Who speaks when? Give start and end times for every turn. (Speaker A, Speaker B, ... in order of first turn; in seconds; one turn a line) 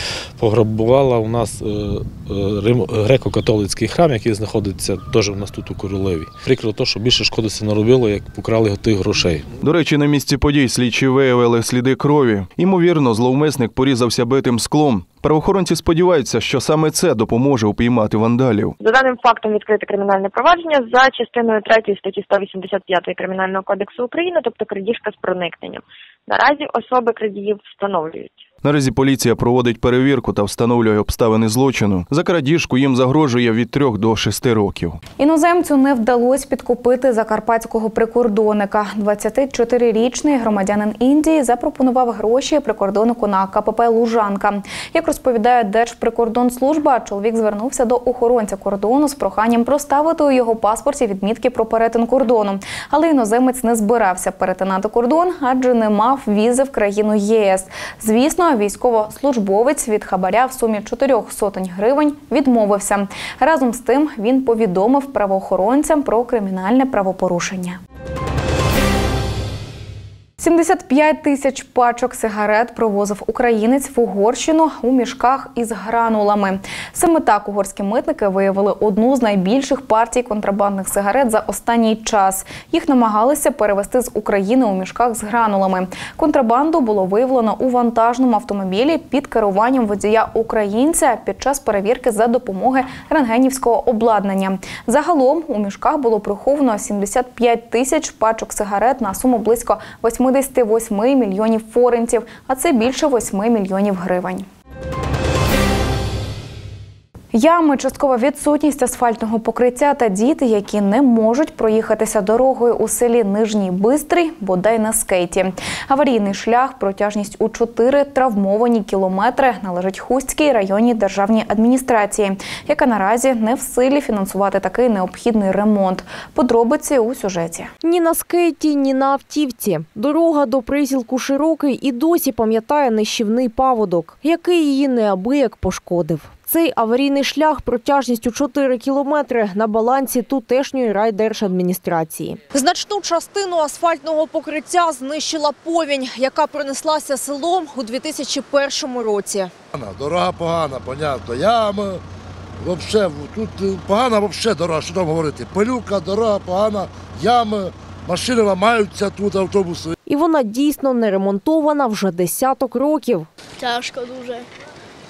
Speaker A: 0.4-9.4
Speaker B: 9.6-18.8
Speaker C: 18.8-28.3
Speaker B: 28.6-35.0
Speaker D: 35.2-67.8
Speaker D: 70.4-104.5
Speaker D: 107.3-127.7
Speaker E: 128.0-149.5
Speaker F: 149.8-152.0
Speaker F: 152.6-159.9
Speaker E: 160.1-163.3